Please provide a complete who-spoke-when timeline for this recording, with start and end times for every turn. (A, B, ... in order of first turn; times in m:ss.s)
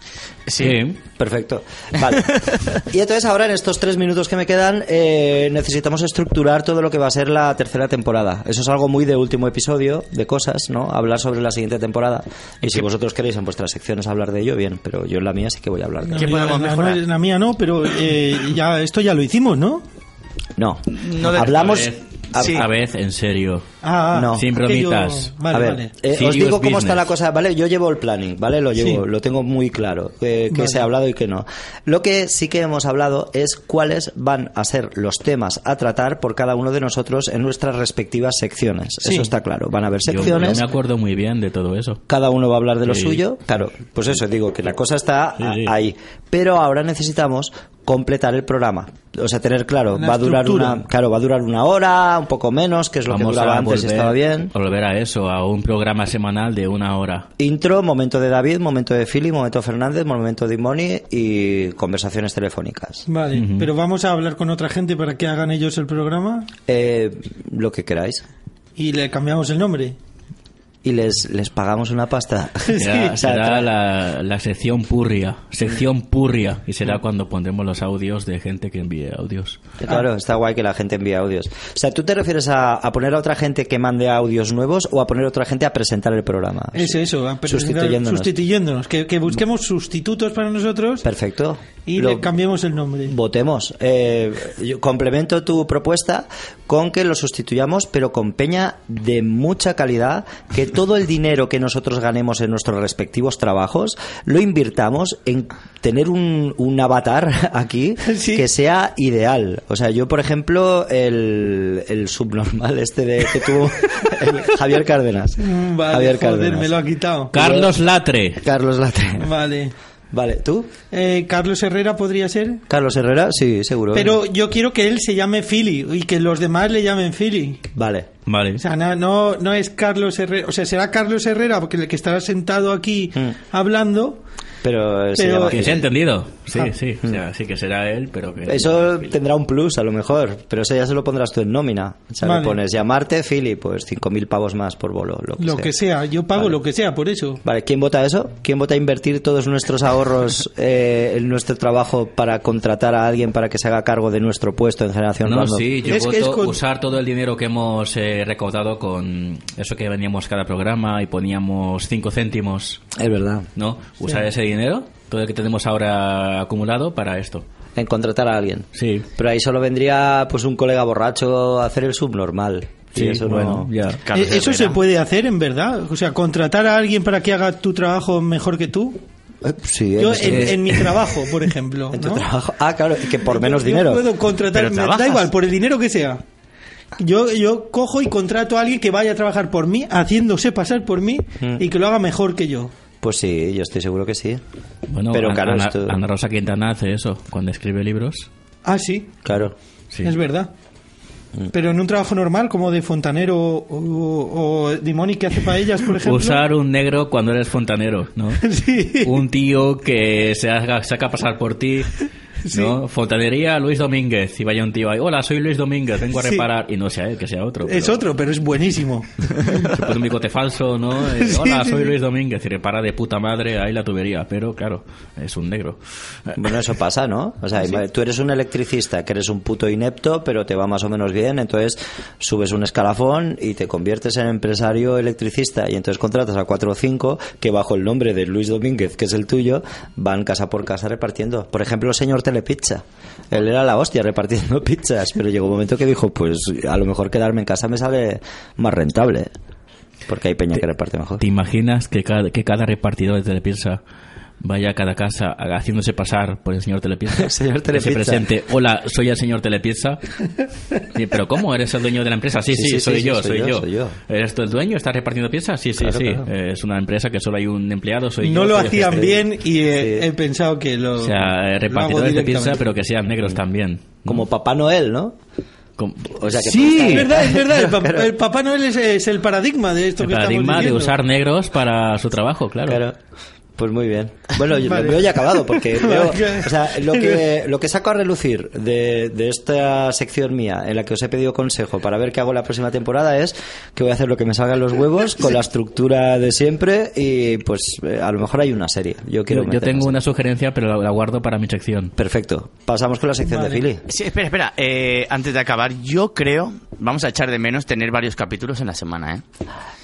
0:00.5-0:00.8 A
0:00.6-0:01.0 B
0:00.6-0:16.4 C
0:16.0-0:19.8 D
0:16.2-0:17.0 A
0:20.6-0:22.6 C
0:20.9-0:22.6 A
0:21.3-0:23.7 B
0:23.8-0:25.9 D
0:24.1-0:24.5 C
0:24.3-0:25.3 B
0:25.5-0:40.6 C
0:26.1-0:27.0 B
0:30.5-0:30.8 D
0:39.0-0:39.3 D
0:40.1-0:42.0 B
0:42.1-0:54.5 C
0:42.9-0:43.2 B
0:45.4-0:45.7 B
0:49.9-0:50.8 D
0:53.1-0:57.3 B
0:57.4-1:03.1 C
1:03.1-1:06.5 D
1:03.3-1:03.7 B
1:06.7-1:08.2 C
1:08.8-1:10.0 D
1:10.8-1:13.7 C
1:12.6-1:13.2 D
1:12.7-1:19.6 B
1:19.8-1:28.3 C
1:26.7-1:31.1 D
1:31.0-1:32.3 C
1:31.8-1:33.2 D
1:33.0-1:56.7 C
1:48.0-1:48.4 D
1:55.4-1:57.3 D
1:57.3-1:58.4 B
1:57.3-1:57.7 C
1:58.4-1:59.3 C
1:59.2-1:59.7 D
2:00.1-2:00.7 C
2:00.9-2:02.6 D
2:02.7-2:04.2 C
2:03.9-2:07.6 D
2:07.7-2:08.1 C
2:08.2-2:08.6 B
2:08.6-2:14.2 D
2:14.6-2:15.8 C
2:15.1-2:15.8 D
2:15.5-2:19.1 B
2:18.4-2:25.7 C
2:22.2-2:22.6 D
2:25.4-2:27.4 D
2:27.4-2:35.7 C
2:35.2-2:42.8 B
2:35.8-2:36.6 D
2:42.9-2:43.5 C
2:43.6-2:47.4 B
2:47.8-2:53.7 C
2:48.7-2:49.1 B
2:52.9-2:54.0 B
2:54.0-2:54.8 A
2:54.1-2:59.0 D
2:59.4-3:00.8 C
3:00.0-3:02.3 D
3:00.2-3:00.9 B
3:01.9-3:04.1 C
3:03.2-3:06.2 D
3:04.5-3:05.3 A
3:07.0-3:12.7 D
3:11.4-3:11.7 C
3:13.0-3:14.4 C
3:14.9-3:18.3 B
3:15.1-3:16.0 C
3:18.6-3:19.2 D
3:19.2-3:19.5 C
3:20.0-3:20.5 D
3:21.5-3:26.4 D
3:26.0-3:28.4 B
3:28.4-3:29.2 D
3:29.0-3:31.9 B
3:32.4-3:32.8 D
3:32.5-3:38.0 B
3:36.1-3:36.4 D
3:37.6-3:39.8 D
3:39.4-3:46.4 B
3:41.2-3:41.9 D
3:46.4-4:09.3 C
4:10.1-4:11.2 C
4:11.2-4:13.8 B
4:14.4-4:20.0 B
4:17.1-4:18.3 C
4:20.9-4:29.2 B
4:22.5-4:24.0 C
4:25.8-4:26.3 C
4:28.2-4:32.7 D
4:29.7-4:30.1 C
4:31.0-4:34.2 B
4:34.0-4:35.2 C
4:35.8-4:37.1 B
4:36.2-4:38.1 C
4:36.7-4:40.9 D
4:40.0-4:42.8 B
4:42.7-4:43.0 C
4:43.6-5:00.0 C
4:44.5-4:47.2 D
4:59.3-5:01.9 B
5:02.0-5:03.8 C
5:03.2-5:03.6 D
5:03.9-5:09.2 A